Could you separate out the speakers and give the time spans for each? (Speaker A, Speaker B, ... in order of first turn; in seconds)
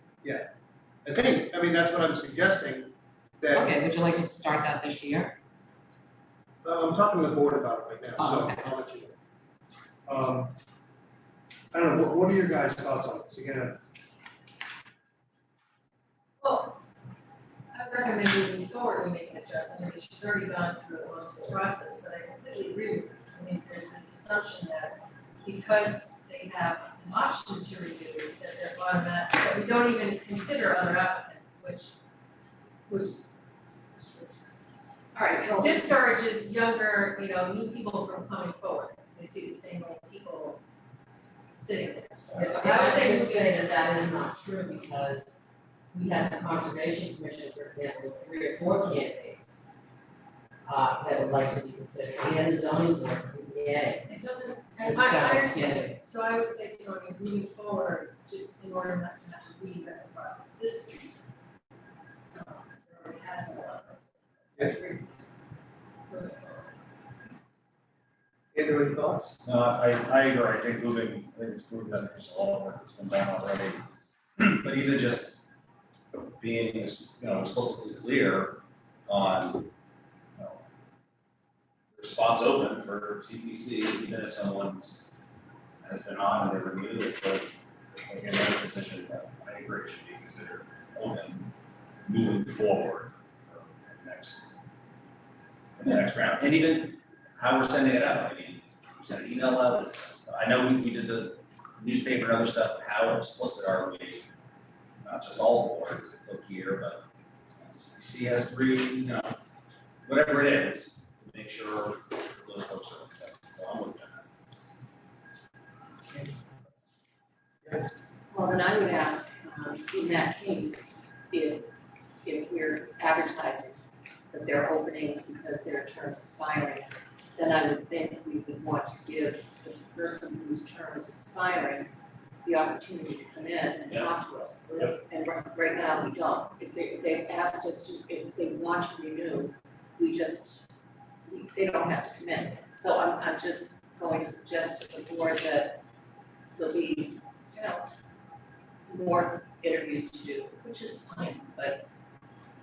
Speaker A: 0.2-0.5, 1.1-3.8, 6.6-9.2, 10.1-10.6, 11.7-13.8, 68.5-69.4
Speaker B: 3.5-5.4, 8.2-8.7, 42.3-49.7, 50.6-54.1, 54.8-56.0
Speaker C: 16.4-16.8, 17.7-31.9, 32.9-33.3, 34.0-34.4, 35.4-40.6, 41.5-43.5, 54.1-61.2, 62.4-65.1, 66.1-66.7
Speaker D: 35.1-35.9, 118.3-121.7, 122.2-123.8, 124.3-131.9, 132.4-140.6, 141.2-145.8, 146.6-147.9, 148.9-151.9
Speaker E: 69.4-73.8, 74.4-75.4, 76.1-79.7, 80.4-80.6, 81.9-85.1, 85.8-91.5, 92.0-94.5, 95.8-104.3, 105.0-107.0, 107.6-109.4, 110.0-114.3